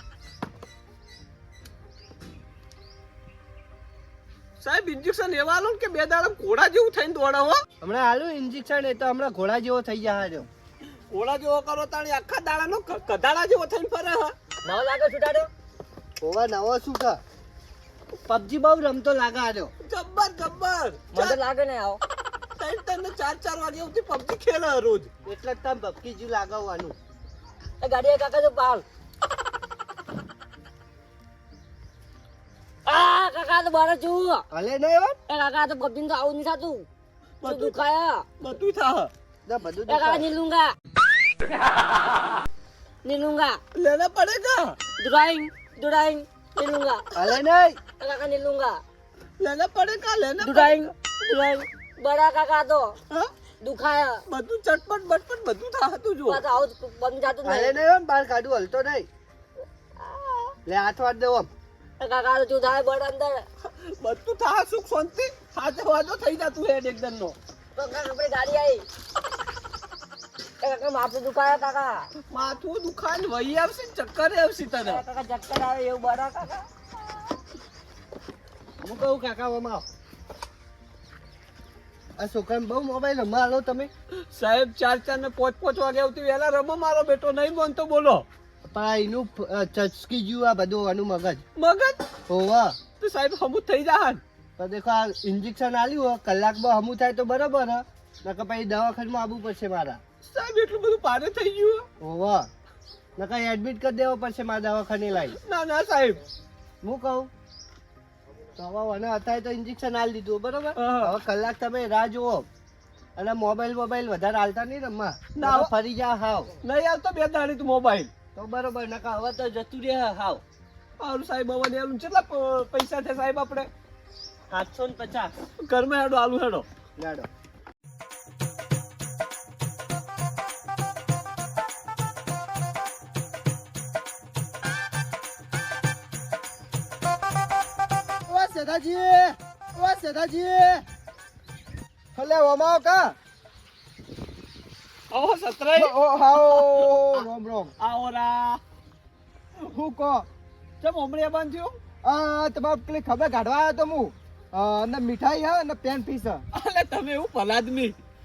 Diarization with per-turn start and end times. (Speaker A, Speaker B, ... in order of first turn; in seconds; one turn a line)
Speaker A: 4.6-7.6
Speaker B: 7.8-10.5
Speaker A: 11.1-14.3
Speaker C: 14.7-15.5
Speaker B: 16.2-17.2
Speaker B: 18.3-19.7
Speaker A: 19.8-21.4
Speaker C: 21.1-22.0
Speaker A: 22.6-25.1
Speaker B: 25.3-26.9
Speaker C: 27.8-28.9
Speaker C: 32.9-34.5
Speaker B: 34.5-35.2
Speaker C: 35.3-36.9
Speaker A: 37.4-37.8
Speaker C: 37.4-38.3
Speaker A: 38.4-39.1
Speaker B: 39.5-40.2
Speaker C: 39.9-40.7
Speaker C: 43.0-43.6
Speaker A: 43.8-44.8
Speaker C: 45.0-47.0
Speaker B: 47.2-47.8
Speaker C: 48.0-48.8
Speaker A: 49.4-50.9
Speaker C: 50.4-53.0
Speaker C: 53.6-54.2
Speaker A: 54.3-56.4
Speaker C: 56.3-57.8
Speaker B: 57.5-59.1
Speaker C: 60.0-60.6
Speaker B: 60.7-61.5
Speaker C: 62.0-63.5
Speaker A: 63.6-67.4
Speaker C: 67.8-68.9
Speaker C: 70.6-72.1
Speaker A: 72.3-75.0
Speaker C: 74.8-76.7
Speaker B: 78.8-79.8
Speaker B: 82.2-83.9
Speaker A: 84.3-88.2
Speaker B: 88.7-91.4
Speaker A: 91.6-92.0
Speaker B: 92.3-92.8
Speaker A: 93.0-94.2
Speaker B: 94.6-100.0
Speaker A: 100.2-101.9
Speaker B: 102.0-102.5
Speaker B: 103.2-105.4
Speaker A: 105.3-106.2
Speaker B: 106.8-107.3
Speaker B: 108.6-112.5
Speaker A: 110.8-111.2
Speaker B: 113.2-116.5
Speaker A: 115.3-115.7
Speaker A: 116.6-118.1
Speaker B: 118.4-120.4
Speaker A: 121.0-123.7
Speaker B: 124.5-125.3
Speaker A: 125.6-126.7
Speaker B: 127.0-127.3
Speaker B: 138.3-140.8
Speaker B: 142.2-143.2
Speaker A: 145.1-147.3
Speaker B: 145.8-147.7
Speaker A: 147.8-148.6
Speaker B: 149.6-150.3
Speaker A: 150.8-151.8
Speaker B: 152.0-156.4
Speaker A: 156.5-157.9